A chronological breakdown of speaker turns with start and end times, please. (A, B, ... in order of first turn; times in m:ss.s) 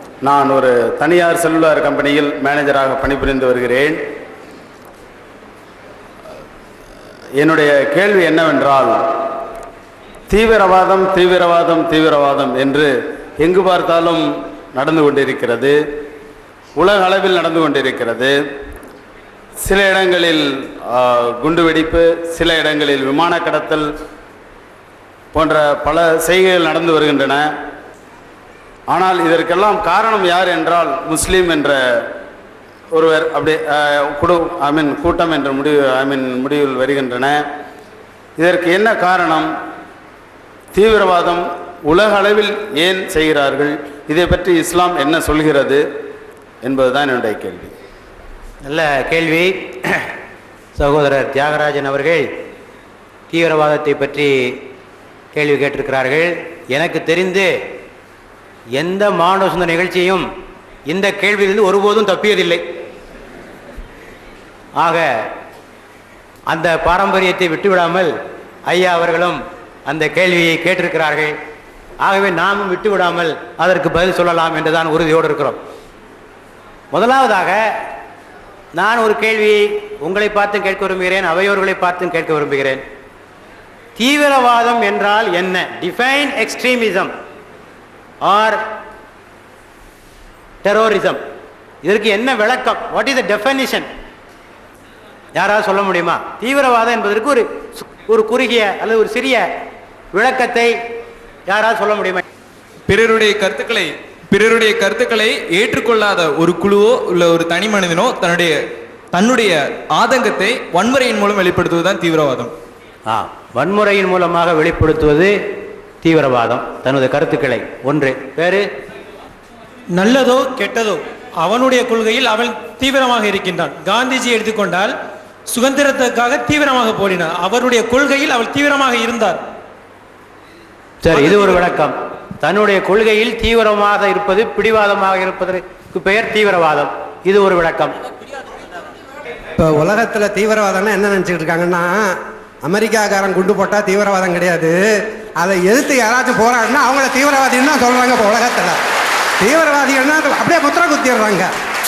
0:00.2-0:04.0 A
0:07.4-0:09.0 A
0:10.3-0:14.2 A
0:14.7-0:15.7 A
0:16.8-0:18.3 A
0:19.6-0:20.4 A
0:20.9-0:23.8 A
0:25.3-0:27.5 A
0:28.9-0:31.8 A
0:32.9-0:37.4 A
0:38.4-0:39.5 A
0:40.7-0:45.8 A
0:46.6-0:47.7 A
0:48.6-0:50.0 B
0:50.8-0:52.3 B
0:53.3-0:54.6 B
0:55.3-0:57.5 B
0:58.8-1:00.3 B
1:00.9-1:02.6 B
1:04.8-1:05.2 B
1:06.5-1:08.1 B
1:08.7-1:11.3 B
1:12.0-1:15.6 B
1:16.9-1:17.7 B
1:18.8-1:22.8 B
1:24.0-1:27.1 B
1:28.2-1:28.6 B
1:30.6-1:31.2 B
1:31.8-1:33.9 B
1:35.3-1:39.5 B
1:40.1-1:40.7 B
1:41.5-1:42.2 B
1:42.9-1:48.6 C
1:49.1-1:52.5 C
1:53.1-1:55.4 B
1:56.0-1:58.6 B
1:59.9-2:04.9 D
2:05.5-2:09.4 D
2:11.0-2:18.0 B
2:19.6-2:24.8 E
2:25.4-2:28.8 E
2:29.4-2:31.5 E